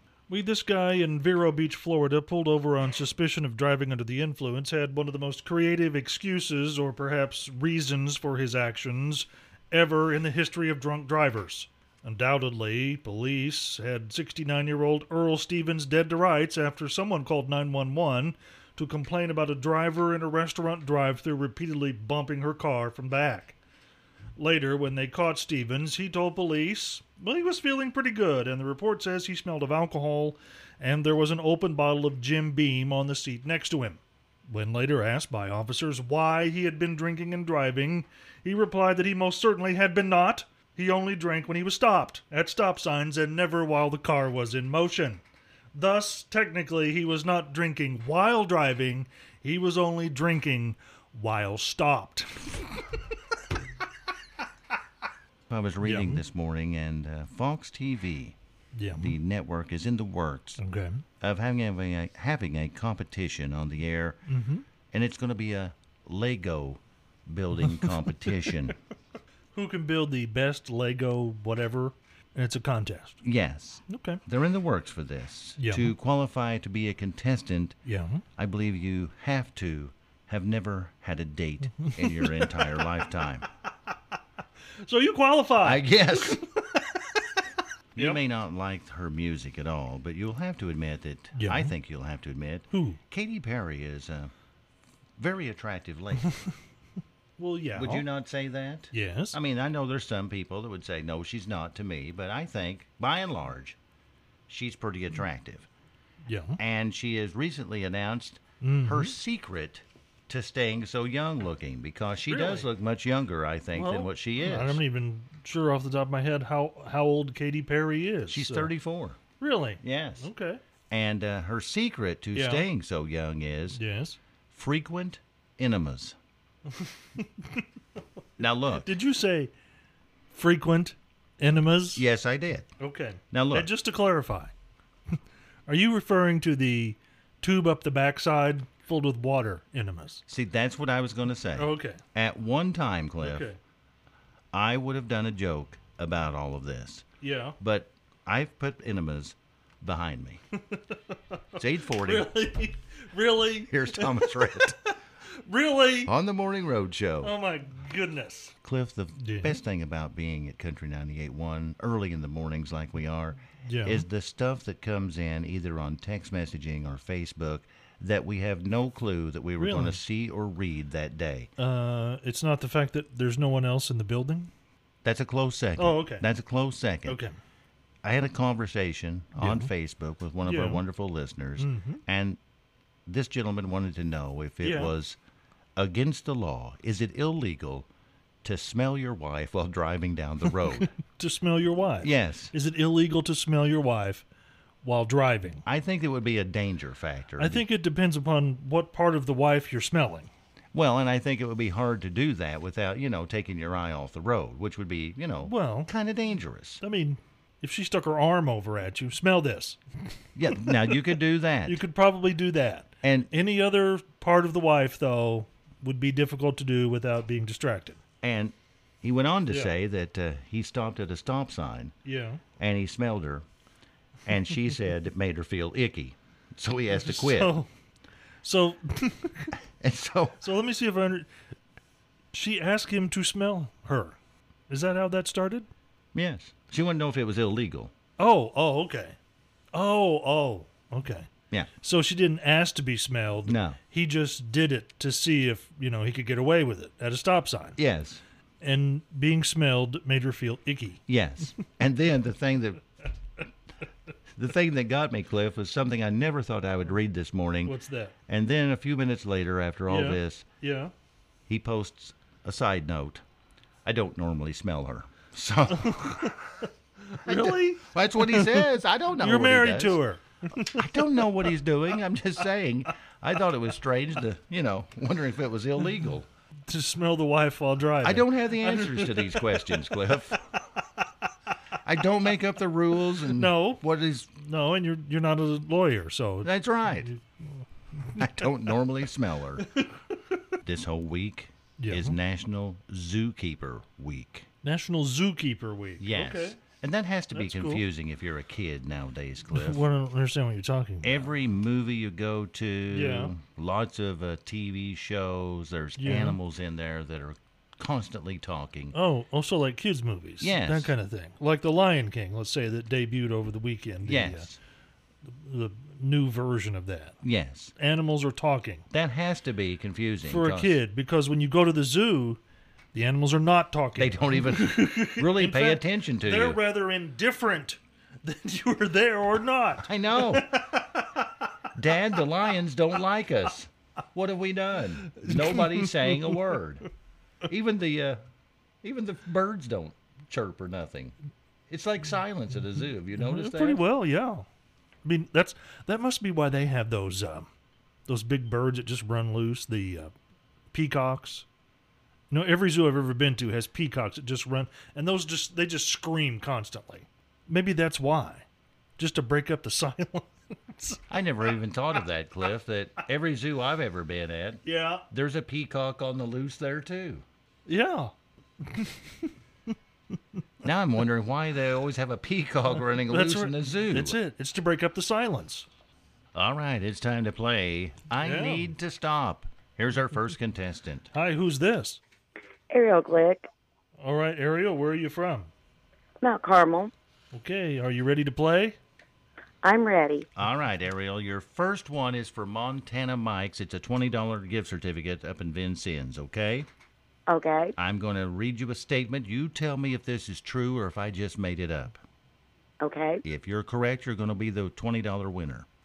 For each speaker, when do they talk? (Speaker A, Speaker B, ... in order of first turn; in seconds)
Speaker A: 0.3-23.6, 24.4-45.2, 45.7-52.8, 55.8-56.2, 58.8-59.2, 60.6-61.0, 64.3-64.7, 67.6-68.5, 69.5-73.2, 73.9-74.2, 75.6-75.9, 77.9-78.2, 81.8-82.8, 84.8-87.3, 91.3-91.7, 92.7-93.0, 97.4-98.1, 98.9-99.4, 106.3-106.6, 108.6-109.1, 112.3-112.7, 113.7-118.7, 119.4-120.6, 122.3-122.7, 123.8-124.2, 126.8-127.6, 128.8-129.5, 130.3-132.1, 132.8-134.5, 135.7-140.2, 141.6-142.0, 143.2-143.6, 147.2-147.6, 150.7-151.2, 151.9-156.1, 157.2-158.6, 159.2-159.6, 163.7-164.1, 169.6-170.0, 171.6-174.5, 175.8-176.3, 177.1-177.3, 179.4-179.7, 180.4-180.8, 181.6-182.0, 184.6-184.9, 190.9-194.2, 194.8-195.6, 197.4-200.3, 205.4-205.9, 206.8-209.8, 210.5-218.0, 222.1-222.4, 226.9-227.7, 228.4-229.6, 230.4-231.3, 232.3-234.2, 234.7-235.7, 238.2-239.2, 239.7-241.3, 241.8-247.8, 248.6-251.0, 257.6-258.1, 259.9-260.9, 265.9-266.3, 267.1-271.5, 276.7-281.0, 283.3-283.8, 284.4-287.2, 288.0-288.5, 291.8-292.2, 294.6-296.6, 297.3-297.9, 299.5-301.3, 302.9-303.3, 306.0-306.4, 308.9-314.5, 315.3-317.2, 317.8-318.9, 320.2-322.4, 322.9-331.5, 335.1-336.4, 343.2-344.5, 345.0-347.5, 348.1-350.1, 350.7-351.5, 352.3-358.5, 359.0-361.0, 364.6-365.1, 367.7-369.3, 373.1-375.7, 378.2-378.8, 381.1-382.0, 384.0-385.5, 387.3-388.8
Speaker B: 55.5-58.4, 59.0-60.6, 61.2-64.2, 64.9-68.8, 73.2-77.8, 78.4-83.5, 85.6-86.4, 88.0-94.3, 95.2-96.4, 97.8-103.8, 104.5-105.7, 106.6-114.8, 118.3-119.2, 119.8-120.3, 120.9-123.8, 124.5-126.2, 128.4-128.9, 131.9-132.7, 133.3-133.7, 140.3-143.5, 144.5-147.1, 147.6-150.4, 151.6-152.4, 153.6-154.8, 156.1-157.4, 158.6-171.5, 175.0-177.2, 178.0-182.4, 183.1-185.2, 185.8-187.9, 188.4-190.9, 192.0-192.5, 195.7-197.7, 200.7-206.8, 210.4-211.8, 213.0-213.3, 218.2-221.9, 222.6-223.4, 224.3-227.6, 229.8-230.4, 236.2-237.9, 243.4-243.8, 247.8-248.2, 251.1-252.9, 254.4-257.8, 258.3-260.4, 261.5-263.2, 263.9-266.7, 267.3-270.0, 270.6-276.3, 278.0-280.4, 281.9-284.3, 286.4-287.1, 288.1-289.7, 290.6-294.5, 296.0-299.9, 301.0-308.9, 310.4-310.9, 314.0-314.6, 317.2-317.7, 318.9-320.8, 324.0-326.6, 329.8-330.6, 331.8-336.9, 337.5-338.2, 338.8-341.1, 341.7-343.8, 361.1-367.2, 370.6-374.2, 376.4-381.1, 390.4-396.7, 397.8-402.0, 403.2-405.7
Speaker C: 382.7-383.5, 386.2-386.9, 389.6-390.3, 397.3-397.8, 402.8-403.2